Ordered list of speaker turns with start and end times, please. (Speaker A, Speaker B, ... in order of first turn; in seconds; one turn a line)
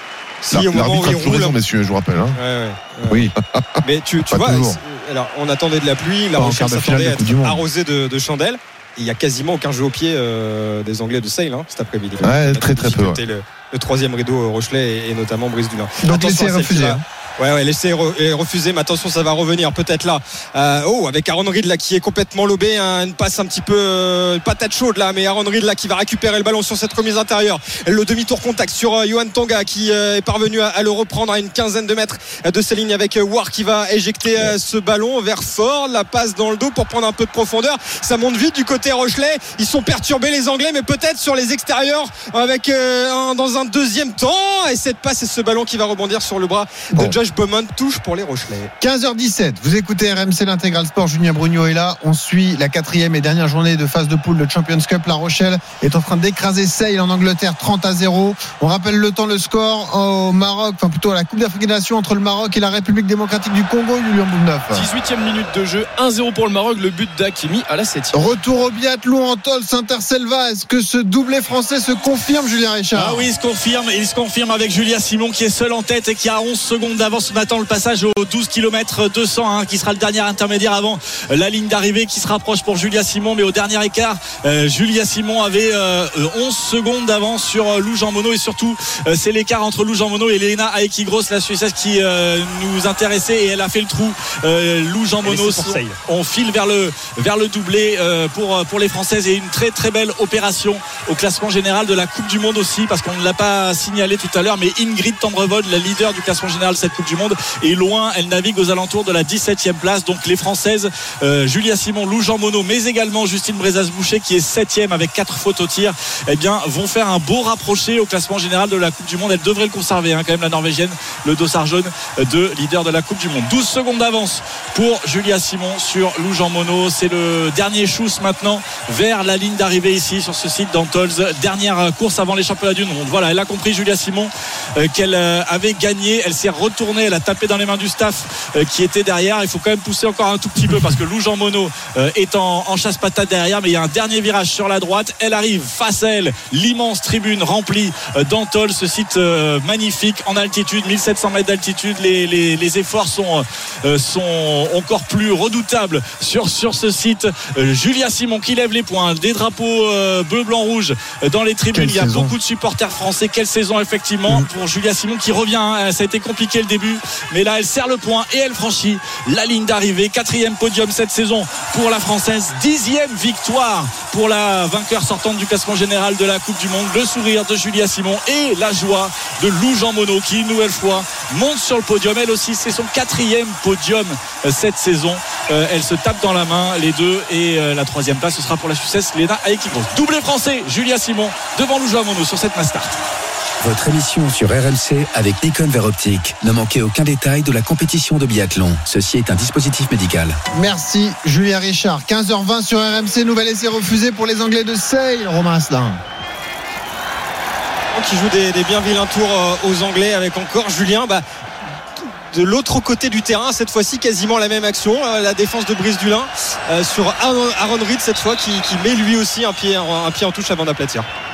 Speaker A: 0.4-1.6
Speaker B: 0.5-2.4
Speaker A: 2.3-3.2
Speaker C: 3.1-3.3
Speaker A: 3.8-48.7
Speaker C: 4.3-4.8
Speaker C: 6.3-7.6
Speaker B: 12.2-13.2
Speaker C: 16.0-17.0
Speaker C: 48.8-64.8
Speaker D: 64.7-68.2
Speaker C: 68.1-73.3
Speaker E: 72.9-192.9
Speaker A: 95.2-95.9
Speaker C: 161.7-162.3
Speaker F: 193.6-200.4
Speaker C: 200.5-206.0
Speaker A: 207.9-211.2
Speaker A: 212.3-221.1